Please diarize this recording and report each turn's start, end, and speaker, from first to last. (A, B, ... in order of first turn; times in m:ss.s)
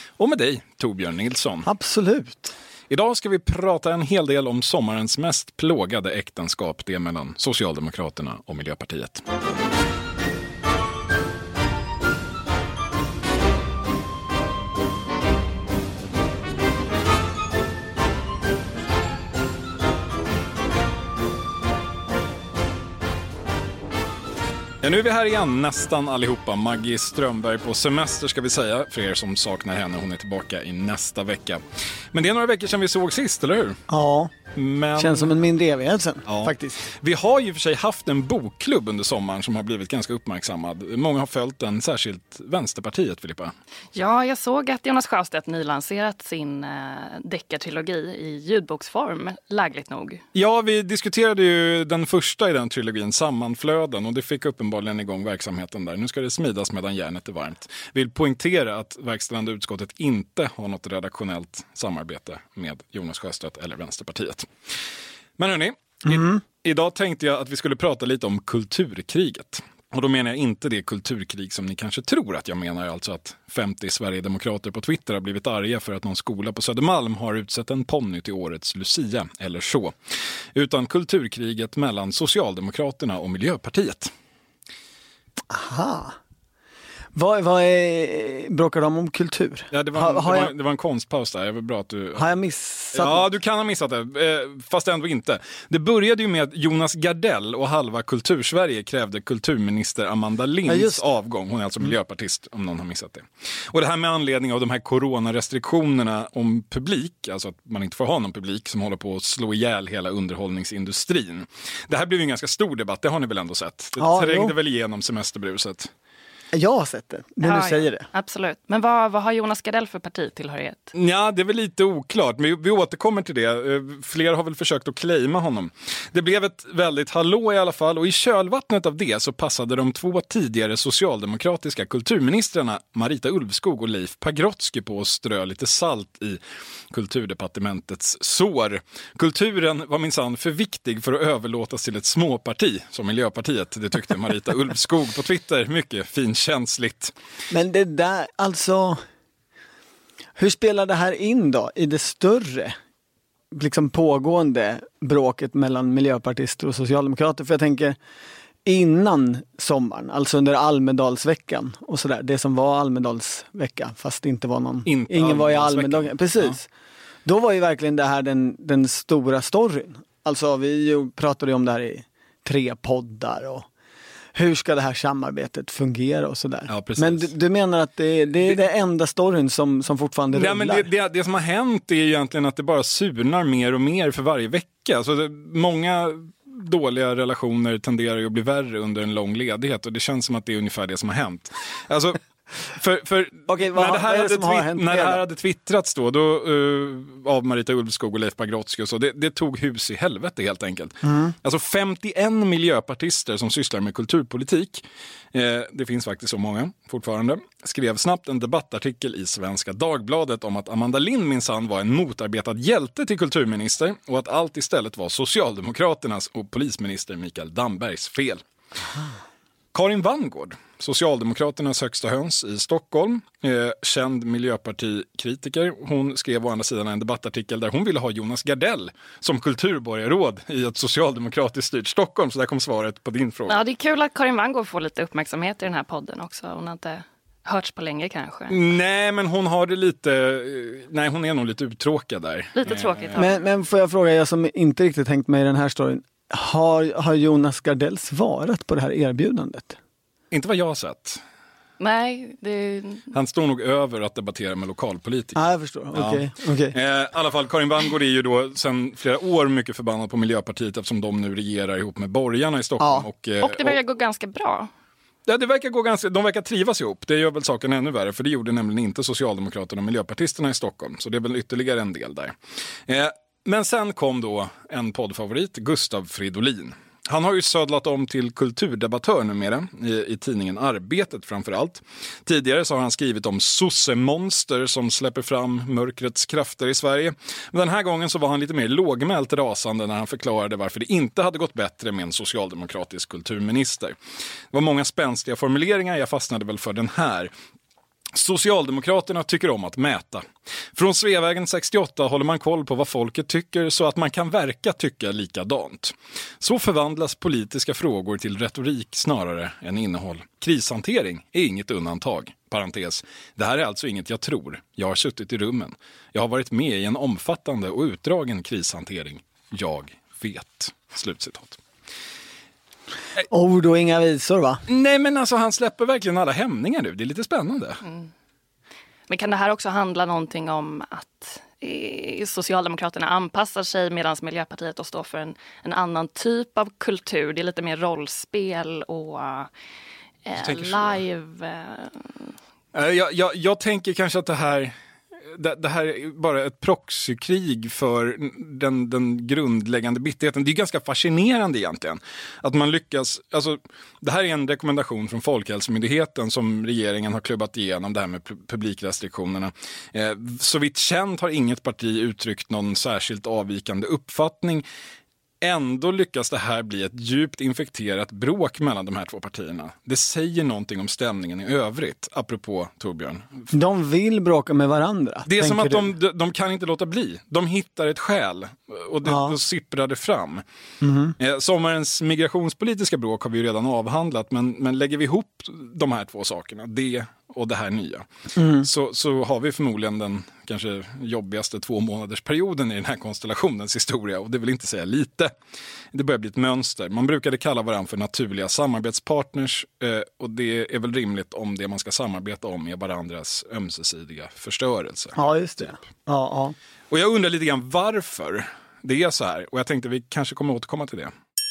0:00.2-0:01.7 A
0:01.6-0:02.6 B
0:02.9-0:09.2 A
0:24.8-0:33.8 A
0:33.9-0:34.3 B
0:34.5-0:35.3 A
0:35.0-0:36.8 B
0:36.3-0:43.6 A
0:43.9-0:50.2 C
0:50.3-1:04.5 A
1:05.4-1:24.1 A
1:06.1-1:06.4 B
1:25.5-1:26.2 B
1:27.1-1:30.5 B
1:29.7-1:32.3 A
1:32.2-1:33.3 B
1:32.9-1:55.9 A
1:40.7-1:41.0 B
1:54.0-1:54.5 B
1:56.5-1:58.1 B
1:57.4-2:00.9 C
2:00.9-2:27.1 A
2:27.5-2:29.0 B
2:30.4-2:32.8 B
2:33.5-2:38.0 B
2:38.6-2:46.7 B
2:44.9-2:46.6 A
2:47.2-2:53.7 B
2:54.4-3:00.9 B
2:56.7-2:57.3 A
3:00.3-3:38.4 A
3:13.5-3:15.2 B
3:21.0-3:21.4 B
3:39.7-3:53.6 A
3:53.5-3:58.6 C
3:58.5-4:03.2 A
4:02.6-4:03.4 C
4:03.2-4:09.8 B
4:10.3-4:11.2 A
4:11.8-4:13.1 C
4:13.1-4:15.4 A
4:15.4-4:16.8 B
4:15.9-4:23.8 A
4:22.8-4:23.1 B
4:23.4-4:24.7 C
4:25.3-4:32.4 A
4:32.9-4:54.0 A
4:54.5-4:57.3 A
4:58.2-5:21.6 A
5:23.3-5:24.6 B
5:24.7-5:27.8 A
5:27.8-5:28.1 C
5:29.1-5:39.5 C
5:40.2-5:42.3 C
5:40.4-5:41.0 A
5:42.7-5:44.8 A
5:45.3-6:04.6 A
6:05.4-6:13.4 A
6:13.5-6:15.9 B
6:15.3-6:20.4 A
6:19.0-6:19.4 B
6:20.8-6:21.2 B
6:21.2-6:35.3 A
6:28.4-6:28.7 B
6:35.9-6:45.8 A
6:45.2-6:46.6 B
6:46.9-6:51.1 A